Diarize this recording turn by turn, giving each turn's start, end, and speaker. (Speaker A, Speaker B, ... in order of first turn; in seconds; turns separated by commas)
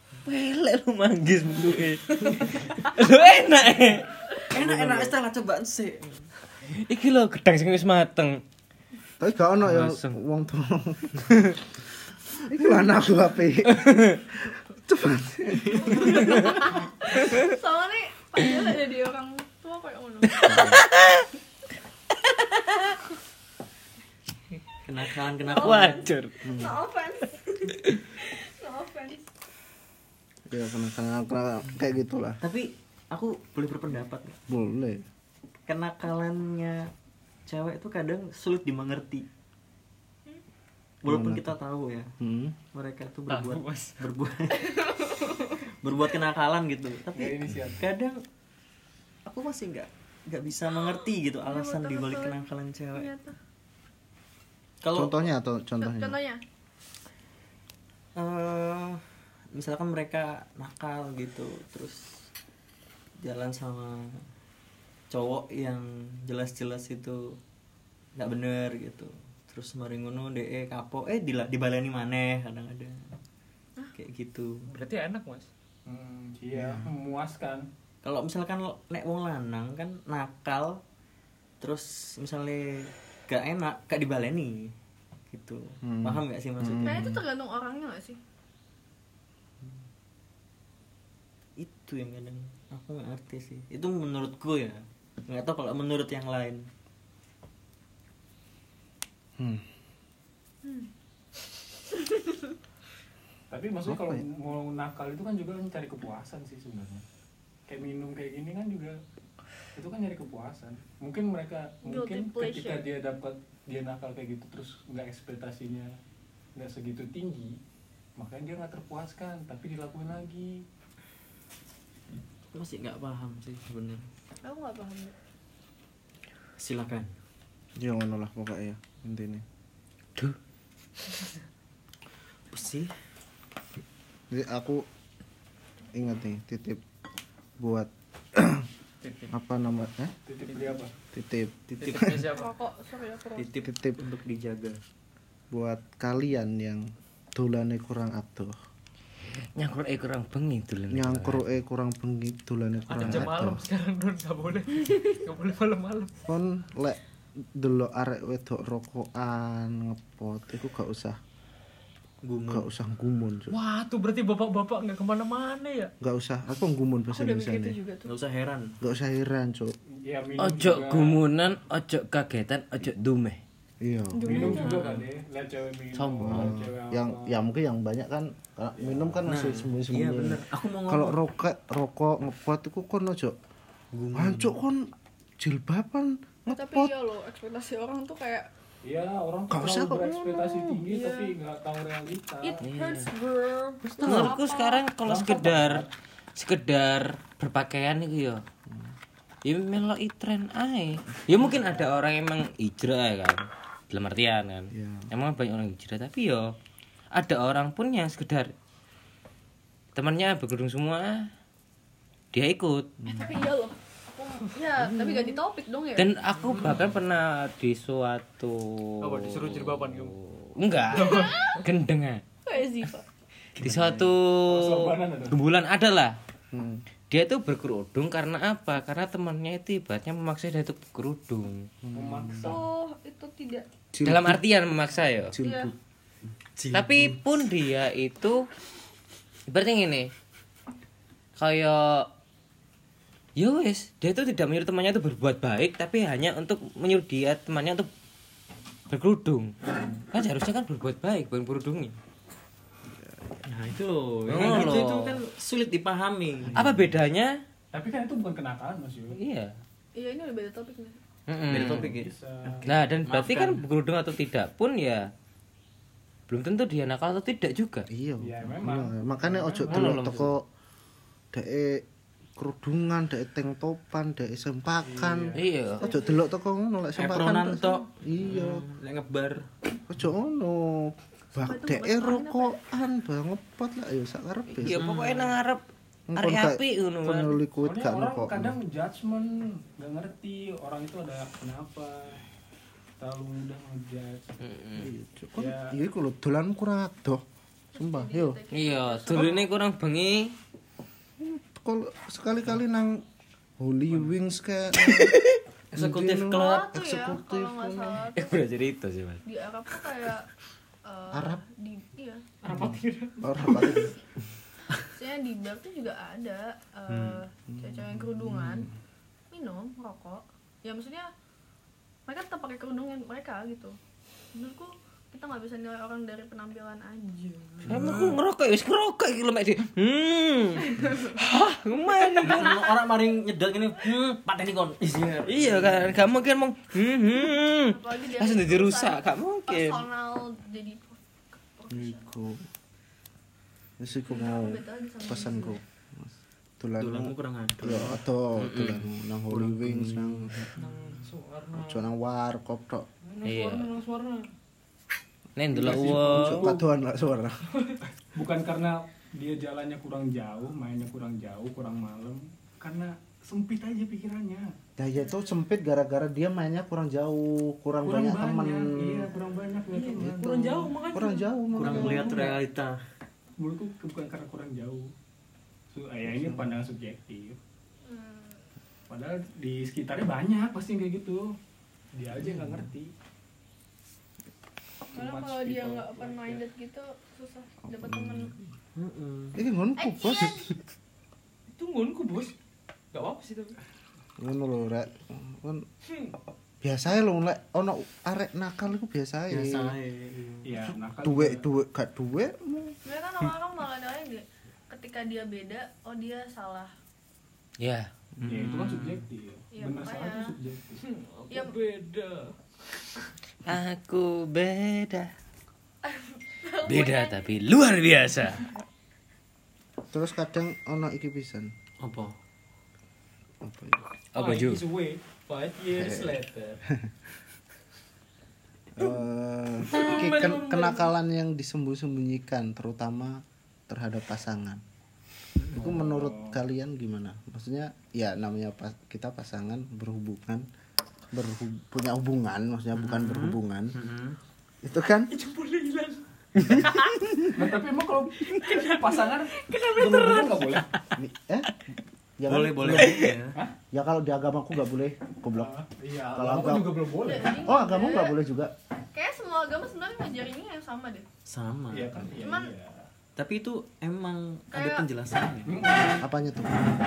Speaker A: 0.2-4.1, Speaker B: 4.3-6.3, Speaker C: 4.5-5.1, Speaker A: 6.7-8.4, Speaker C: 9.2-11.6, Speaker A: 9.6-10.2, Speaker C: 12.5-16.4, Speaker A: 13.7-14.2, Speaker D: 15.8-20.8, Speaker A: 16.2-16.6, Speaker A: 17.2-17.5, Speaker A: 20.3-21.3, Speaker C: 20.4-20.8, Speaker A: 22.2-22.7, Speaker B: 24.8-26.1, Speaker D: 25.4-29.3, Speaker A: 25.5-26.5, Speaker C: 26.4-26.8, Speaker C: 30.5-32.4, Speaker B: 32.4-34.4, Speaker C: 34.5-35.0, Speaker B: 35.7-36.9, Speaker B: 37.5-39.3, Speaker B: 41.0-42.1, Speaker C: 41.0-41.5, Speaker C: 42.2-42.5, Speaker B: 42.7-44.9, Speaker E: 43.3-44.0, Speaker D: 44.6-45.5, Speaker B: 45.8-48.2, Speaker F: 47.1-47.8, Speaker B: 49.2-53.1, Speaker D: 51.0-53.3, Speaker B: 54.8-55.2, Speaker C: 54.9-56.2, Speaker D: 55.8-56.4, Speaker B: 58.1-59.0, Speaker B: 59.5-62.2, Speaker B: 63.2-64.2, Speaker B: 65.1-67.4, Speaker B: 68.2-73.1, Speaker B: 73.9-74.7, Speaker E: 74.7-75.5, Speaker F: 75.8-77.7, Speaker C: 76.5-76.9, Speaker B: 78.0-80.8, Speaker B: 81.6-84.7, Speaker B: 85.3-87.1, Speaker C: 85.8-87.2, Speaker D: 86.8-88.2, Speaker B: 91.6-96.7, Speaker C: 99.4-99.7, Speaker F: 103.5-107.0, Speaker C: 103.8-104.2, Speaker F: 107.7-109.0, Speaker F: 109.7-115.9, Speaker D: 111.8-112.8, Speaker F: 116.5-117.6, Speaker F: 118.2-120.6, Speaker B: 122.5-124.1, Speaker D: 124.4-125.1, Speaker B: 126.6-127.1, Speaker C: 127.8-129.4, Speaker B: 132.5-132.9, Speaker C: 134.3-134.8, Speaker C: 135.9-136.8, Speaker C: 137.6-138.7, Speaker E: 139.0-139.3, Speaker C: 139.3-140.1, Speaker F: 140.2-140.9, Speaker E: 140.5-140.7, Speaker C: 141.1-142.3, Speaker E: 141.8-142.5, Speaker D: 142.3-143.5, Speaker B: 143.4-144.8, Speaker C: 143.6-144.0, Speaker C: 145.5-148.5, Speaker A: 149.6-151.4, Speaker C: 150.9-153.7, Speaker E: 152.9-156.1, Speaker C: 156.3-161.2, Speaker B: 162.2-162.7, Speaker C: 162.5-163.5, Speaker E: 163.5-165.9, Speaker C: 166.0-167.8, Speaker D: 167.1-168.1, Speaker B: 168.0-168.7, Speaker C: 168.8-169.7, Speaker F: 170.0-171.2, Speaker A: 170.4-173.4, Speaker C: 173.8-174.7, Speaker D: 174.1-174.9, Speaker F: 174.2-177.3, Speaker B: 174.6-175.0, Speaker A: 175.9-176.6, Speaker C: 176.2-183.3, Speaker F: 178.7-179.2, Speaker B: 179.2-181.2, Speaker B: 183.9-184.6, Speaker C: 184.1-186.9, Speaker D: 186.5-188.5, Speaker F: 188.8-192.6, Speaker C: 189.5-190.8, Speaker D: 190.9-191.3, Speaker D: 192.4-194.8, Speaker A: 192.6-193.1, Speaker A: 193.8-198.4, Speaker F: 195.0-195.9, Speaker C: 198.7-198.9, Speaker A: 199.4-206.5, Speaker C: 204.7-205.1, Speaker A: 207.1-208.5, Speaker A: 209.9-211.3, Speaker A: 212.3-212.9, Speaker C: 213.0-213.3, Speaker D: 213.1-216.1, Speaker C: 214.8-215.3, Speaker A: 215.9-222.2, Speaker E: 219.0-220.2, Speaker D: 220.9-221.6, Speaker E: 220.9-221.6, Speaker D: 222.4-223.0, Speaker A: 223.6-226.1, Speaker C: 223.6-224.1, Speaker F: 224.5-225.4, Speaker C: 226.5-226.8, Speaker A: 227.1-231.7, Speaker C: 231.8-232.6, Speaker F: 231.9-232.6, Speaker D: 232.4-233.7, Speaker C: 233.9-234.4, Speaker A: 234.0-235.3, Speaker C: 235.3-235.7, Speaker D: 235.4-235.7, Speaker B: 236.6-237.2, Speaker A: 236.7-238.4, Speaker A: 239.5-240.1, Speaker A: 241.4-242.1, Speaker A: 243.4-247.9, Speaker A: 248.9-251.9, Speaker C: 252.9-253.4, Speaker B: 253.4-256.6, Speaker A: 254.3-255.2, Speaker F: 256.5-256.9, Speaker A: 256.5-257.3, Speaker F: 257.7-259.2, Speaker A: 259.1-259.5, Speaker D: 259.9-261.0, Speaker A: 261.3-261.9, Speaker B: 261.5-263.6, Speaker F: 261.6-262.8, Speaker A: 262.6-265.1, Speaker A: 266.3-267.9, Speaker C: 267.9-270.4, Speaker F: 268.2-270.0, Speaker A: 269.6-270.3, Speaker C: 271.3-271.9, Speaker C: 272.4-278.6, Speaker F: 274.8-275.4, Speaker A: 275.3-275.9, Speaker D: 275.8-276.2, Speaker B: 276.9-279.5, Speaker C: 279.9-284.9, Speaker D: 281.3-282.6, Speaker A: 284.5-285.6, Speaker B: 284.6-285.3, Speaker C: 286.1-288.6, Speaker A: 286.1-287.4, Speaker F: 287.6-292.2, Speaker F: 293.0-294.5, Speaker A: 294.4-294.9, Speaker C: 294.8-297.2, Speaker F: 295.4-295.7, Speaker D: 297.7-299.5, Speaker C: 297.8-298.4, Speaker A: 298.5-300.3, Speaker C: 301.2-303.0, Speaker C: 303.6-305.2, Speaker A: 304.9-305.3, Speaker B: 305.7-306.7, Speaker C: 305.8-308.1, Speaker D: 306.3-308.4, Speaker A: 308.1-309.2, Speaker D: 309.2-310.3, Speaker D: 310.9-312.2, Speaker C: 311.1-311.4, Speaker E: 312.4-313.9, Speaker C: 312.5-313.9, Speaker D: 314.9-318.7, Speaker B: 316.9-317.2, Speaker C: 317.5-318.7, Speaker D: 319.3-321.1, Speaker D: 322.1-323.8, Speaker D: 324.3-327.8, Speaker A: 327.6-332.7, Speaker D: 330.6-331.2, Speaker B: 332.1-336.0, Speaker A: 335.2-339.9, Speaker D: 337.6-342.1, Speaker C: 341.7-342.4, Speaker C: 343.8-350.5, Speaker D: 344.1-345.6, Speaker B: 346.8-348.1, Speaker A: 348.4-348.8, Speaker B: 349.3-350.7, Speaker E: 350.5-351.9, Speaker C: 351.6-352.9, Speaker E: 353.0-354.3, Speaker A: 353.2-353.7, Speaker A: 355.4-356.5, Speaker F: 355.5-356.6, Speaker C: 355.5-357.4, Speaker F: 358.1-364.5, Speaker C: 364.8-369.1, Speaker D: 365.1-365.3, Speaker F: 367.8-370.7, Speaker E: 369.7-372.4, Speaker C: 370.9-372.1, Speaker B: 371.5-372.8, Speaker F: 371.8-372.2, Speaker F: 373.4-374.9, Speaker F: 375.7-377.4, Speaker C: 376.1-376.6, Speaker D: 377.8-378.4, Speaker F: 378.9-381.3, Speaker F: 381.9-382.9, Speaker C: 382.2-382.7, Speaker F: 384.9-386.4, Speaker D: 384.9-388.3, Speaker C: 387.7-388.5, Speaker B: 388.7-389.4, Speaker C: 389.3-390.6, Speaker D: 389.8-390.5, Speaker E: 391.5-392.3, Speaker E: 392.9-393.6, Speaker C: 394.2-395.6, Speaker E: 395.9-396.1, Speaker C: 396.6-399.7, Speaker B: 399.3-400.5, Speaker F: 400.4-401.4, Speaker C: 400.6-402.8, Speaker D: 402.8-406.7, Speaker A: 407.6-407.9, Speaker B: 408.2-409.1, Speaker F: 408.2-410.8, Speaker D: 409.5-410.4, Speaker E: 410.8-412.3, Speaker A: 413.4-415.1, Speaker D: 415.8-417.3, Speaker A: 416.6-418.5, Speaker C: 419.9-421.5, Speaker B: 421.8-422.1, Speaker C: 423.4-423.8, Speaker A: 424.1-424.7, Speaker F: 424.2-426.6, Speaker E: 425.3-426.2, Speaker C: 425.8-426.2, Speaker C: 428.8-434.6, Speaker E: 429.8-430.9, Speaker F: 435.5-436.4, Speaker C: 435.5-440.4, Speaker C: 441.1-443.7, Speaker B: 442.7-444.2, Speaker C: 444.6-445.1, Speaker E: 445.1-447.1, Speaker A: 446.4-447.3, Speaker F: 447.3-450.7, Speaker E: 448.3-450.6, Speaker C: 451.0-451.5, Speaker C: 452.2-453.0, Speaker B: 452.2-453.4, Speaker F: 452.6-453.5, Speaker C: 453.7-455.5, Speaker F: 455.3-457.4, Speaker C: 456.1-458.5, Speaker D: 457.0-458.1, Speaker D: 458.9-461.1, Speaker B: 461.2-462.0, Speaker F: 461.7-462.9, Speaker D: 462.2-462.5, Speaker B: 463.1-465.7, Speaker D: 464.5-464.9, Speaker F: 465.5-466.1, Speaker C: 466.0-466.7